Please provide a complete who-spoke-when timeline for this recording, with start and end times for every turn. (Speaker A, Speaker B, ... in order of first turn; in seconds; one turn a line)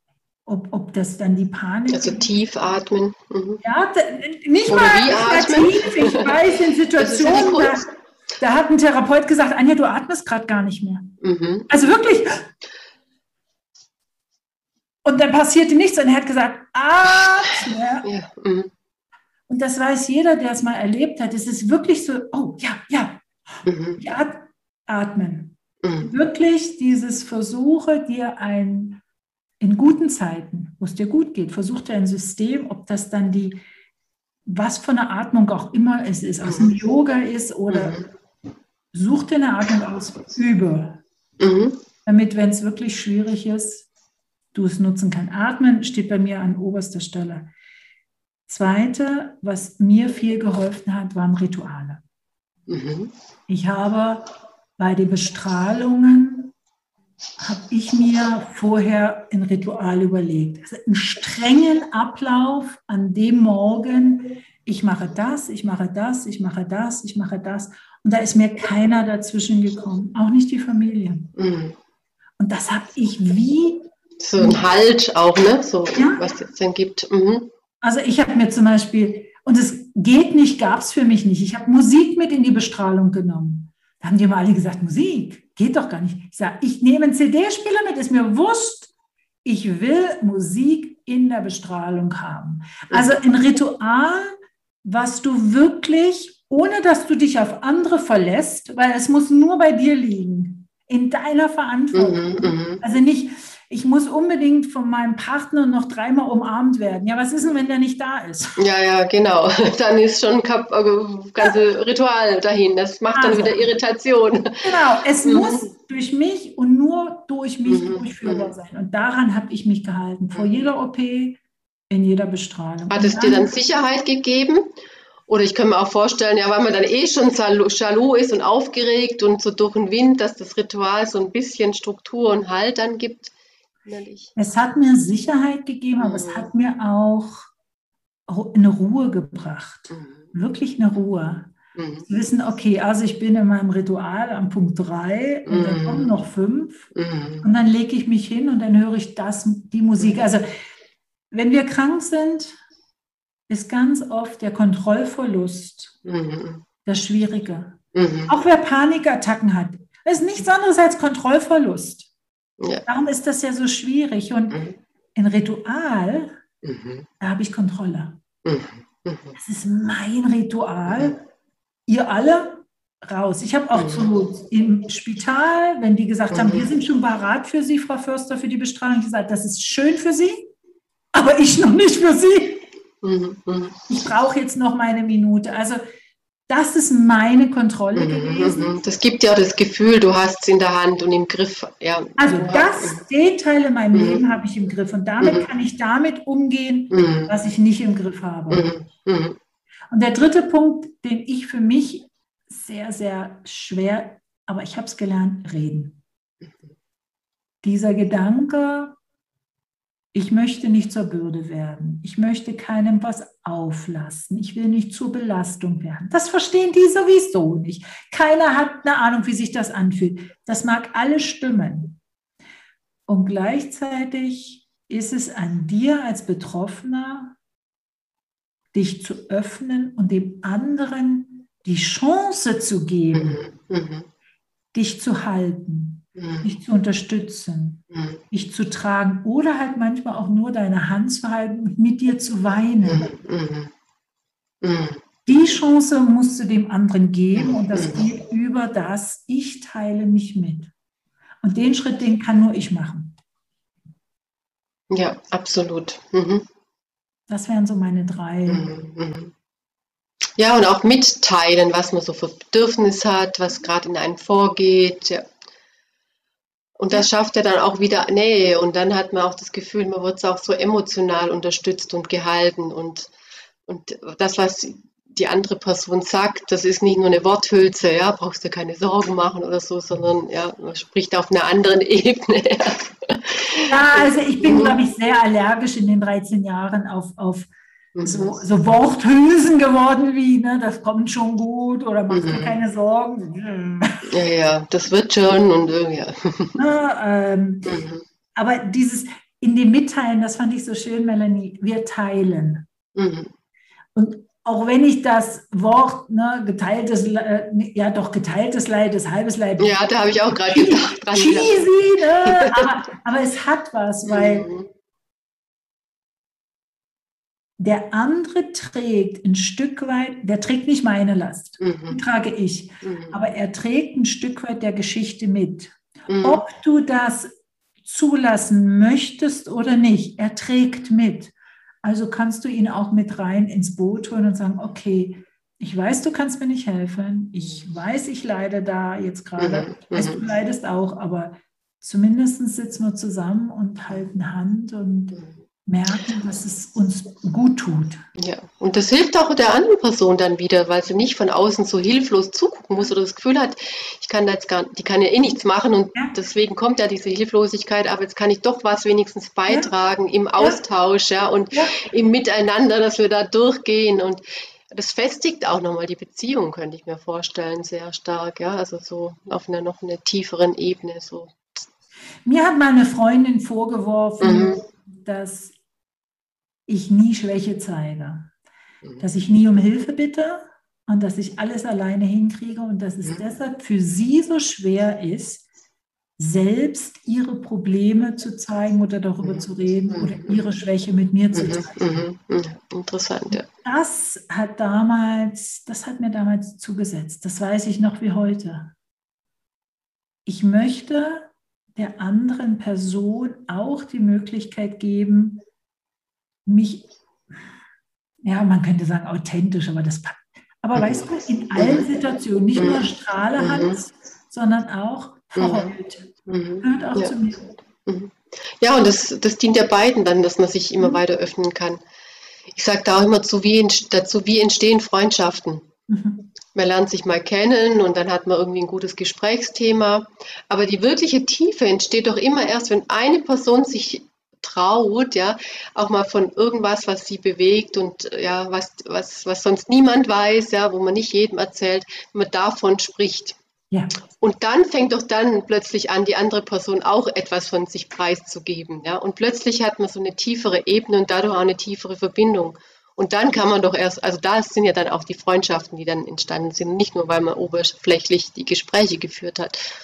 Speaker A: 0.5-2.3
Speaker B: 1.9-3.6
Speaker A: 3.6-7.9
Speaker B: 4.7-6.3
Speaker B: 7.0-7.9
Speaker A: 8.4-12.4
Speaker B: 11.2-11.7
Speaker A: 15.0-18.1
Speaker B: 18.0-18.7
Speaker A: 19.5-23.3
Speaker B: 23.6-24.0
Speaker A: 24.0-29.0
Speaker B: 25.8-26.1
Speaker A: 29.6-33.6
Speaker A: 34.5-38.0
Speaker B: 36.4-36.7
Speaker B: 37.7-38.1
Speaker A: 38.9-41.0
Speaker B: 41.4-41.8
Speaker A: 42.1-43.9
Speaker A: 44.5-47.5
Speaker A: 48.5-52.0
Speaker B: 52.7-53.1
Speaker A: 53.5-56.5
Speaker A: 57.4-71.3
Speaker B: 71.4-71.8
Speaker A: 72.4-74.6
Speaker B: 74.2-77.5
Speaker A: 76.0-76.2
Speaker A: 77.8-88.9
Speaker A: 89.4-94.3
Speaker B: 92.9-93.2
Speaker A: 94.8-108.6
Speaker B: 101.9-102.8
Speaker B: 108.6-114.7
Speaker A: 113.1-113.7
Speaker A: 114.6-121.4
Speaker B: 115.2-115.7
Speaker B: 117.7-118.5
Speaker A: 121.9-123.5
Speaker B: 122.9-124.7
Speaker B: 125.3-133.3
Speaker B: 133.9-134.3
Speaker A: 134.4-137.5
Speaker B: 136.0-136.5
Speaker A: 138.3-141.5
Speaker B: 139.9-140.3
Speaker B: 141.8-142.1
Speaker A: 142.1-146.9
Speaker B: 145.4-146.1
Speaker B: 146.9-147.4
Speaker A: 147.4-150.5
Speaker A: 151.3-152.6
Speaker A: 153.5-155.9
Speaker B: 156.1-156.6
Speaker A: 156.9-162.1
Speaker B: 157.9-158.3
Speaker B: 162.6-162.8
Speaker A: 162.9-164.6
Speaker A: 165.1-166.4
Speaker B: 166.6-167.1
Speaker A: 167.2-168.2
Speaker B: 168.4-169.4
Speaker A: 169.4-171.2
Speaker A: 171.9-180.5
Speaker B: 173.7-174.1
Speaker B: 176.3-176.7
Speaker A: 181.1-182.6
Speaker B: 183.0-183.8
Speaker A: 183.9-185.8
Speaker A: 186.5-188.7
Speaker B: 187.9-193.0
Speaker A: 192.2-198.7
Speaker B: 193.9-194.2
Speaker B: 195.2-195.5
Speaker B: 196.9-197.3
Speaker B: 198.5-199.4
Speaker A: 199.9-206.0
Speaker A: 207.6-209.0
Speaker A: 210.1-222.0
Speaker A: 223.1-227.4
Speaker A: 228.7-233.4
Speaker B: 233.1-234.1
Speaker A: 234.7-243.1
Speaker B: 236.2-236.5
Speaker B: 237.9-238.2
Speaker B: 242.8-243.7
Speaker B: 244.6-245.0
Speaker A: 245.3-250.7
Speaker B: 247.3-248.1
Speaker A: 251.4-253.2
Speaker B: 254.9-256.4
Speaker A: 257.3-258.7
Speaker B: 258.5-259.3
Speaker B: 260.4-265.3
Speaker B: 266.8-273.1
Speaker B: 273.7-284.8
Speaker A: 283.6-287.5
Speaker B: 287.9-288.4
Speaker A: 288.0-294.2
Speaker B: 292.1-292.5
Speaker B: 294.0-296.6
Speaker A: 296.6-297.8
Speaker B: 297.6-298.0
Speaker A: 298.4-302.7
Speaker B: 302.9-303.3
Speaker A: 303.9-314.5
Speaker B: 309.6-311.6
Speaker B: 312.2-312.7
Speaker B: 314.1-314.7
Speaker A: 317.6-327.3
Speaker B: 321.6-322.0
Speaker B: 322.8-323.1
Speaker B: 326.1-326.4
Speaker A: 327.8-348.0
Speaker B: 339.4-340.2
Speaker B: 348.2-371.4
Speaker A: 361.5-361.8
Speaker A: 372.2-375.6
Speaker B: 374.2-374.6
Speaker A: 376.7-378.3
Speaker A: 379.0-385.4
Speaker A: 386.2-392.1
Speaker B: 389.2-390.4
Speaker B: 391.3-393.5
Speaker A: 393.6-398.8
Speaker A: 400.3-405.4
Speaker A: 406.4-406.9
Speaker A: 408.2-417.5
Speaker B: 410.8-411.0
Speaker B: 411.6-411.8
Speaker B: 412.6-412.8
Speaker B: 413.4-413.8
Speaker B: 415.4-415.7
Speaker B: 416.3-417.1
Speaker B: 417.9-421.8
Speaker B: 422.6-425.7
Speaker A: 425.9-426.3
Speaker B: 426.5-443.4
Speaker B: 444.2-459.6